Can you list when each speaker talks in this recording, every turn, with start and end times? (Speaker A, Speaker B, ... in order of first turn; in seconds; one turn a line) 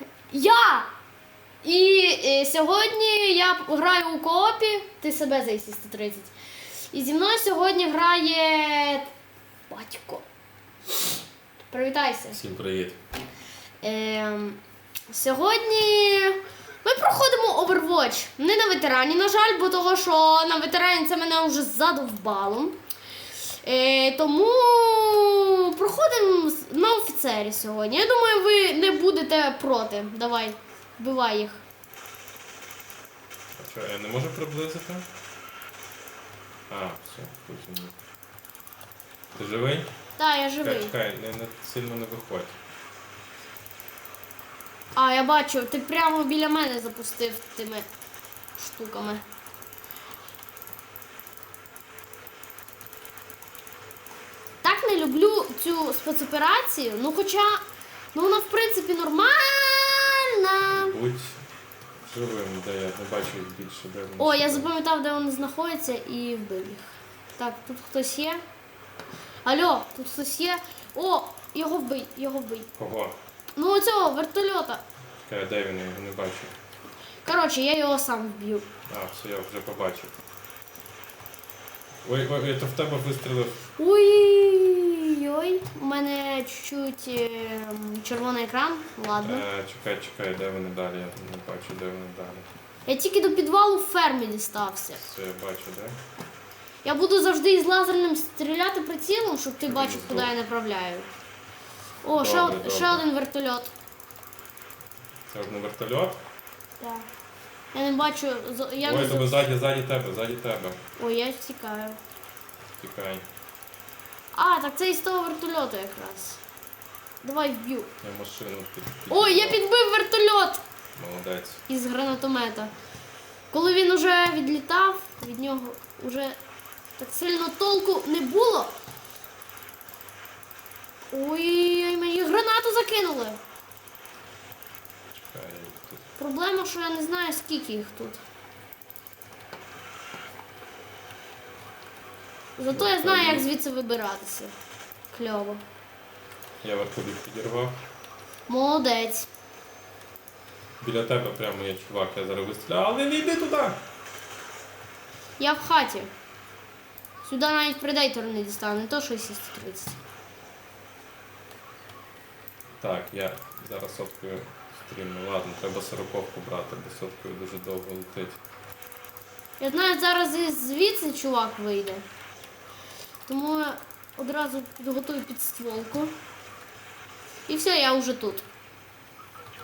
Speaker A: 0.3-0.9
Speaker A: 1.6-6.3
Speaker A: 6.9-9.1
Speaker A: 9.7-10.2
Speaker A: 11.7-12.4
Speaker B: 12.3-13.0
Speaker A: 13.8-22.8
Speaker A: 23.6-31.6
Speaker B: 33.6-35.1
Speaker B: 36.7-37.9
Speaker B: 39.4-39.9
Speaker A: 40.2-40.9
Speaker B: 40.6-42.6
Speaker A: 45.0-47.9
Speaker A: 48.6-49.2
Speaker A: 54.6-57.6
Speaker A: 58.1-60.9
Speaker B: 60.7-61.4
Speaker B: 62.0-64.7
Speaker A: 64.2-66.9
Speaker A: 67.4-68.4
Speaker A: 69.5-72.7
Speaker B: 72.8-73.2
Speaker A: 73.6-74.8
Speaker B: 75.2-76.5
Speaker A: 77.2-78.7
Speaker B: 78.9-80.1
Speaker B: 82.0-83.7
Speaker A: 83.8-89.4
Speaker B: 89.2-92.5
Speaker A: 92.9-95.0
Speaker B: 95.0-96.0
Speaker A: 96.8-101.1
Speaker B: 99.6-100.3
Speaker A: 102.0-103.7
Speaker B: 102.1-103.0
Speaker B: 105.3-106.2
Speaker A: 106.8-107.1
Speaker A: 107.7-109.4
Speaker B: 108.8-110.8
Speaker A: 111.0-112.0
Speaker B: 112.8-113.2
Speaker A: 114.3-116.4
Speaker A: 117.2-117.9
Speaker B: 118.0-119.6
Speaker A: 119.1-120.6
Speaker B: 121.0-121.6
Speaker A: 121.7-122.7
Speaker A: 123.5-126.4
Speaker A: 127.0-128.7
Speaker A: 131.1-133.4
Speaker B: 135.2-136.0
Speaker A: 136.2-138.2
Speaker A: 142.6-144.6
Speaker B: 142.7-143.5
Speaker A: 145.1-145.6
Speaker B: 146.6-147.8
Speaker A: 148.5-149.3
Speaker B: 150.8-153.8
Speaker A: 155.4-156.1
Speaker A: 157.2-160.0
Speaker B: 162.8-168.4
Speaker A: 169.6-172.0
Speaker A: 173.3-176.1
Speaker A: 177.5-178.5